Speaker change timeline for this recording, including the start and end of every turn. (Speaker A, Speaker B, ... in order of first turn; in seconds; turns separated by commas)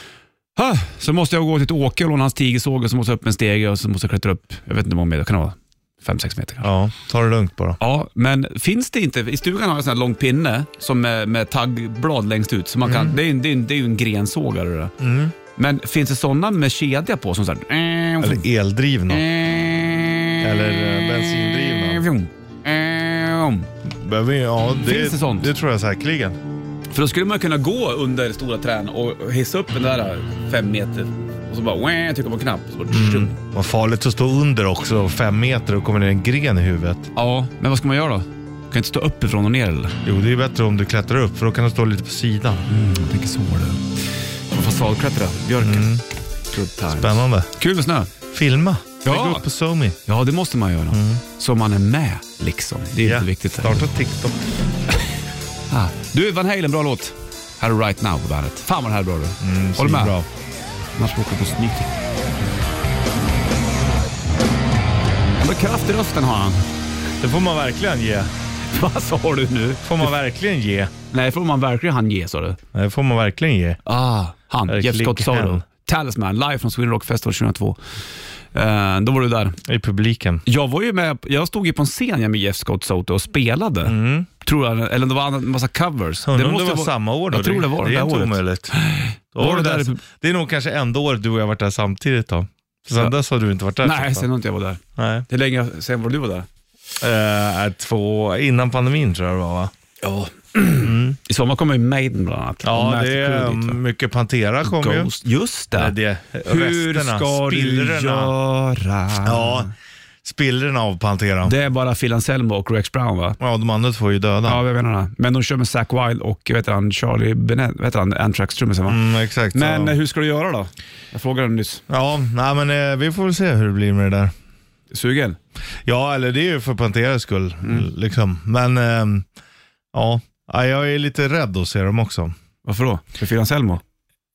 Speaker A: 0.6-6.7, Speaker B: 6.6-7.8, Speaker A: 7.8-14.9, Speaker B: 12.8-13.2, Speaker B: 15.0-15.3, Speaker A: 15.5-18.4, Speaker B: 18.2-19.2, Speaker A: 19.1-23.7, Speaker B: 20.4-22.0, Speaker B: 23.9-26.4, Speaker A: 24.8-25.5, Speaker A: 26.9-33.4, Speaker B: 32.9-37.1, Speaker A: 37.1-40.0, Speaker B: 40.0-42.7, Speaker A: 42.7-48.1, Speaker B: 45.6-46.0, Speaker B: 46.9-47.5, Speaker B: 48.3-50.0, Speaker A: 49.0-49.4, Speaker A: 50.0-53.8, Speaker B: 50.9-51.2, Speaker B: 53.0-54.5, Speaker A: 55.7-60.2, Speaker B: 59.4-60.2, Speaker A: 61.0-61.9, Speaker A: 65.4-66.7, Speaker B: 67.2-68.3, Speaker A: 68.7-70.1, Speaker B: 69.8-70.9, Speaker A: 71.1-72.6, Speaker B: 72.7-73.8, Speaker A: 73.8-77.8, Speaker B: 74.7-75.6, Speaker A: 78.5-79.6, Speaker B: 79.6-80.4, Speaker A: 80.5-90.0, Speaker B: 83.8-84.3, Speaker B: 86.2-88.7, Speaker B: 89.3-94.3, Speaker A: 93.8-96.5, Speaker B: 95.0-95.2, Speaker B: 97.0-99.7, Speaker A: 100.1-103.8, Speaker B: 100.7-101.2, Speaker B: 102.6-105.1, Speaker A: 104.6-109.7, Speaker B: 105.7-108.3, Speaker B: 109.2-109.7, Speaker B: 110.2-111.5, Speaker A: 111.4-113.4, Speaker B: 113.4-114.6, Speaker A: 114.4-119.0, Speaker B: 118.9-120.0, Speaker A: 119.5-121.8, Speaker B: 121.9-124.3, Speaker A: 124.9-125.4, Speaker B: 125.8-129.3, Speaker B: 129.9-132.3, Speaker A: 132.6-133.8